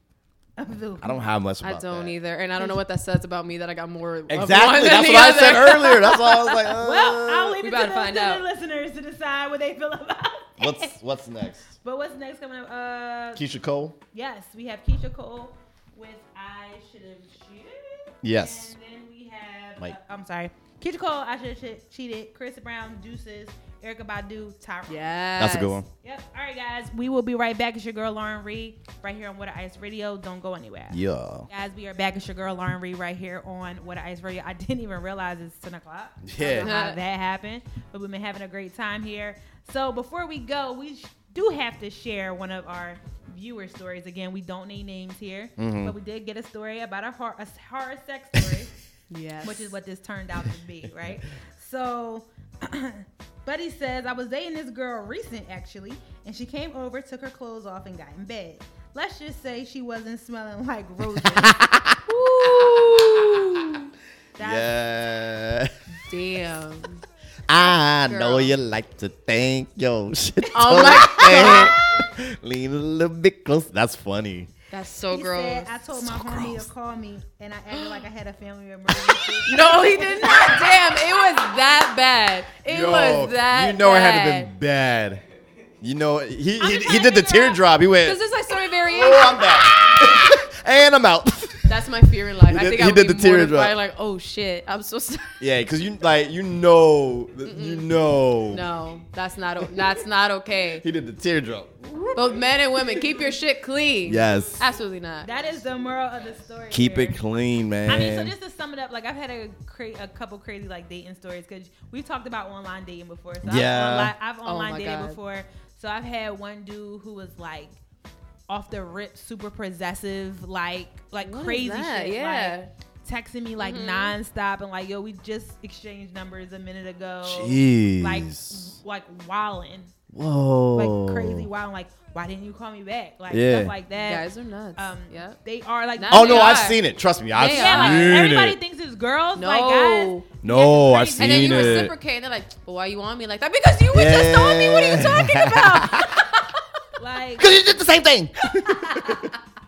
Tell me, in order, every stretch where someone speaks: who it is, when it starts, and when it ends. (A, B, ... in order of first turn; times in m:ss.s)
0:00.6-0:01.2 A
0:01.0-0:02.1 B
0:01.6-0:06.7 C
0:04.3-0:07.6 B
0:06.8-0:10.9 A
0:07.6-0:08.4 C
0:10.6-0:11.6 B
0:11.8-0:13.4 A
0:13.4-0:14.0 B
0:14.1-0:25.1 A
0:18.2-0:18.7 B
0:24.9-0:25.8 C
0:25.4-0:25.9 B
0:26.0-0:48.7 A
0:30.9-0:31.5 B
0:36.2-0:36.7 B
0:36.6-0:37.0 C
0:45.6-0:45.9 B
0:49.1-0:49.7 C
0:49.4-1:01.6 A
1:01.2-1:03.4 B
1:02.1-1:03.9 C
1:04.4-1:04.7 A
1:04.4-1:05.7 B
1:05.9-1:07.0 C
1:07.5-1:14.5 B
1:08.1-1:08.5 C
1:10.5-1:11.7 C
1:11.4-1:11.7 A
1:14.7-1:15.7 C
1:15.1-1:21.1 A
1:16.0-1:16.7 B
1:17.7-1:18.0 C
1:19.4-1:24.5 C
1:22.6-1:25.2 B
1:25.8-1:28.2 B
1:26.6-1:27.6 A
1:28.0-1:29.5 C
1:28.8-1:31.9 B
1:31.6-1:35.4 C
1:32.4-1:33.8 B
1:35.4-1:38.6 B
1:37.4-1:37.8 C
1:38.5-1:40.8 C
1:40.8-1:43.1 B
1:42.1-1:45.3 C
1:44.0-1:44.6 B
1:45.2-1:47.2 A
1:46.7-1:48.3 B
1:47.9-1:57.8 A
1:53.4-1:54.1 B
1:54.4-1:55.2 C
1:58.5-2:09.9 A
2:01.2-2:02.7 C
2:03.6-2:04.2 C
2:07.2-2:08.7 B
2:10.1-2:11.5 B
2:10.7-2:14.2 A
2:13.3-2:13.7 B
2:13.9-2:15.4 C
2:14.8-2:16.7 A
2:16.0-2:16.8 C
2:16.1-2:18.6 B
2:17.3-2:18.2 C
2:17.3-2:21.9 A
2:19.4-2:20.2 C
2:20.4-2:21.9 B
2:21.2-2:26.6 C
2:23.9-2:26.2 B
2:27.0-2:27.6 A
2:27.4-2:29.2 B